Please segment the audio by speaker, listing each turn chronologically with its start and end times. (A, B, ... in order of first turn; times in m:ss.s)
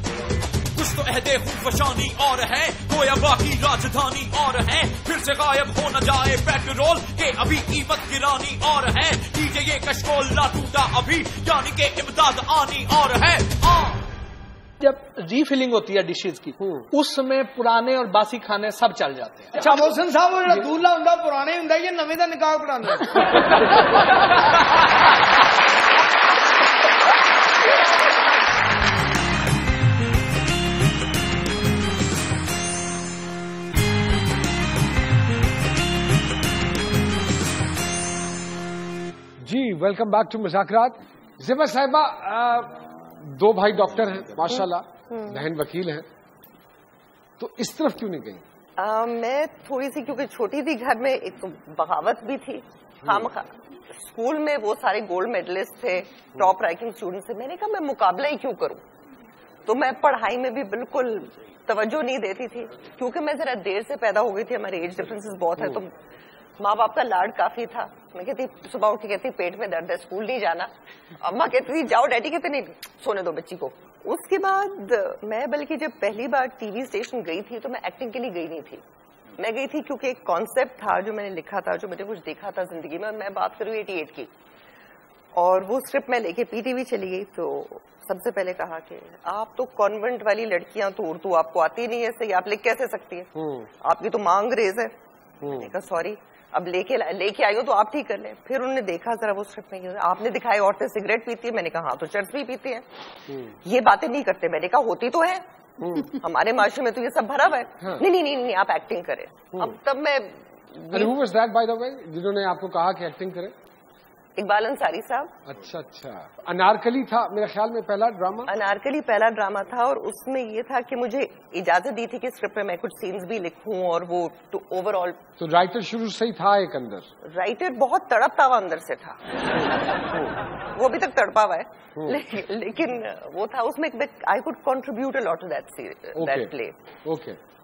0:00.7-0:14.0 A
0:14.8-0:19.9 B
0:16.6-0:16.9 C
0:19.6-0:23.2 D
0:39.4-0:46.0 C
0:44.5-0:45.5 E
0:47.4-0:48.4 C
0:48.8-0:58.8 E
0:59.7-1:05.9 E
1:06.6-1:18.8 E
1:19.4-1:24.3 E
1:25.4-1:33.3 E
1:33.4-1:33.7 C
1:33.8-1:42.8 E
1:35.4-1:35.7 C
1:43.3-1:43.6 C
1:43.6-1:45.4 E
1:45.8-1:46.1 C
1:46.1-1:51.1 E
1:47.8-1:48.1 C
1:50.9-1:53.5 C
1:54.4-1:55.4 E
1:55.5-1:58.5 C
1:58.5-2:05.2 E
2:05.4-2:07.1 C
2:07.3-2:09.2 E
2:09.5-2:10.3 C
2:10.8-2:16.8 E
2:12.0-2:12.2 C
2:16.2-2:16.5 C
2:17.0-2:17.4 C